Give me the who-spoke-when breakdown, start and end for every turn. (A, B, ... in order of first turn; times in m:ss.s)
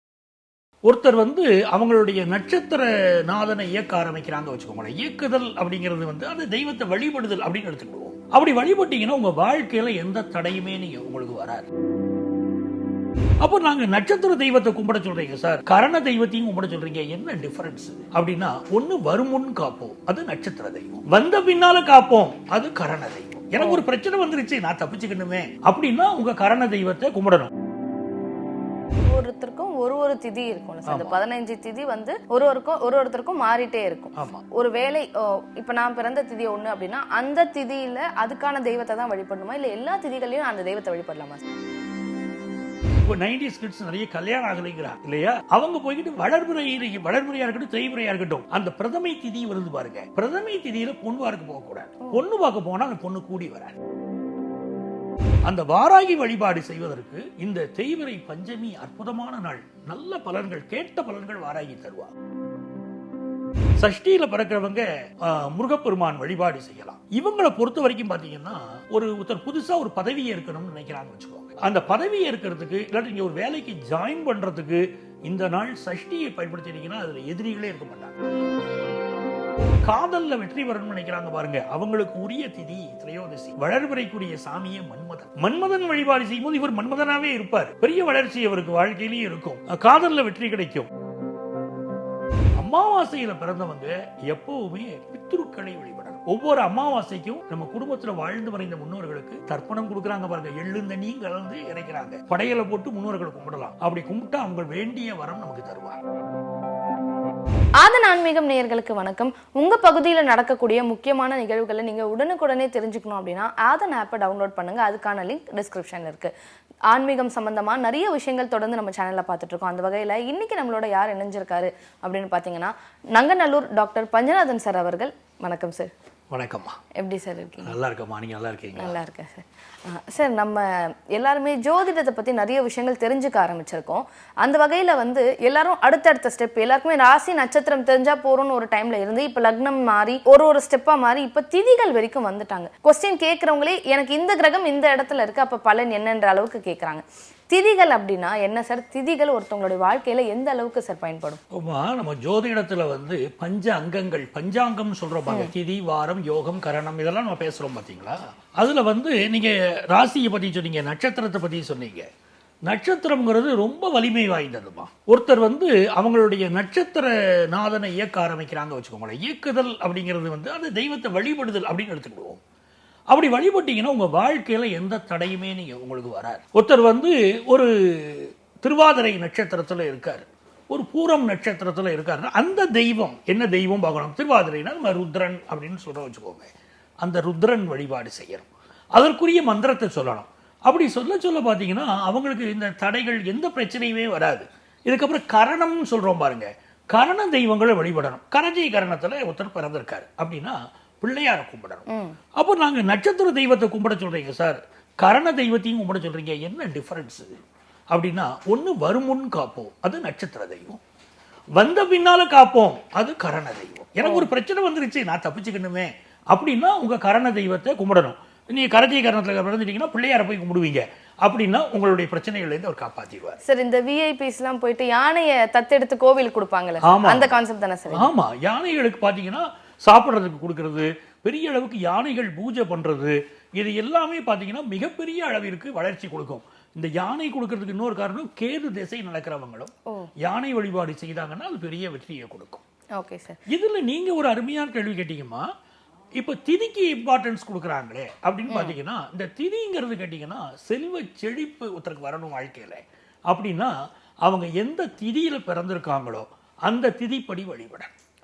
0:00.9-0:11.7 A
0:13.4-0:27.5 A
0:23.6-0:23.8 B
0:29.0-0:41.4 B
0:30.8-0:31.2 A
0:34.1-0:34.4 A
0:43.0-0:53.8 A
0:55.4-1:02.1 A
1:03.8-1:18.2 A
1:19.8-1:30.9 A
1:32.6-1:46.0 A
1:47.8-1:56.3 B
1:56.9-2:05.9 B
2:06.3-2:06.8 A
2:07.0-2:07.8 B
2:07.6-2:09.0 A
2:08.8-2:31.4 B
2:31.5-2:42.1 A
2:42.6-2:52.4 A
2:53.1-3:06.5 A
3:07.0-3:27.3 A
3:21.9-3:22.2 B
3:27.9-3:30.8 A
3:31.6-3:43.4 A
3:34.0-3:34.3 B
3:43.4-3:48.1 B
3:46.8-3:47.4 A
3:47.9-4:02.6 A
4:03.0-4:03.4 B
4:03.5-4:05.5 A
4:06.2-4:17.9 A
4:08.5-4:08.8 B